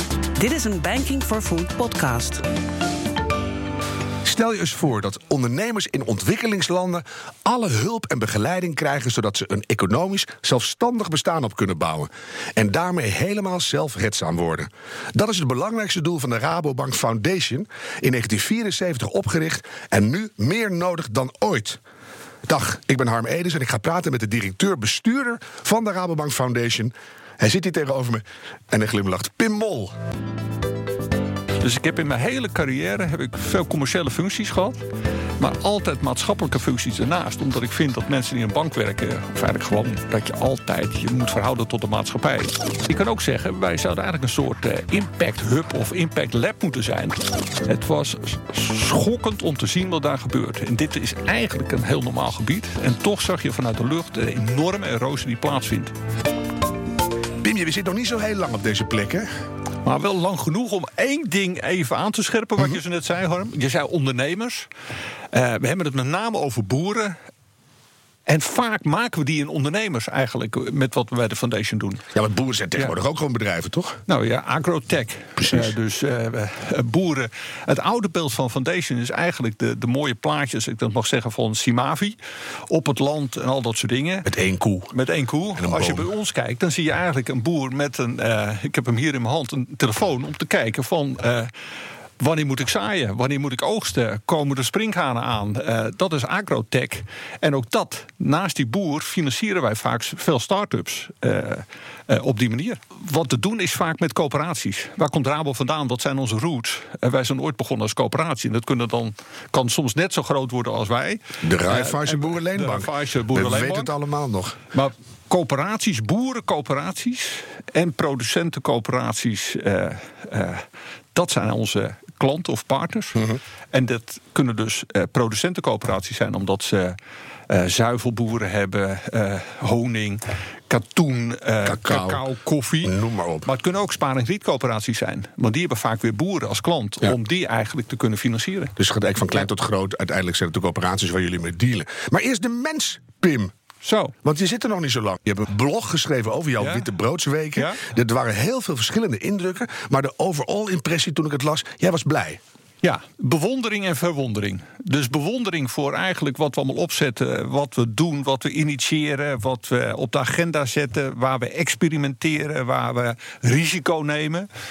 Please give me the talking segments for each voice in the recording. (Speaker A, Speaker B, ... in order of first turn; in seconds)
Speaker A: 0.3-2.4
Speaker B: 4.2-21.8, 22.5-29.9, 57.4-59.3, 72.1-74.0, 75.4-75.7, 84.2-84.9, 85.5-86.1, 111.4-114.6, 131.6-132.2, 132.8-133.5, 138.8-143.5, 144.2-152.4
Speaker C: 31.6-34.8, 35.4-55.9, 59.8-64.7, 65.3-67.2, 68.3-72.1, 74.1-82.2, 82.7-84.3, 84.9-91.5, 92.2-113.9, 114.7-127.0, 127.5-138.8, 143.8-144.1, 146.6-146.9, 147.6-147.8, 152.8-164.5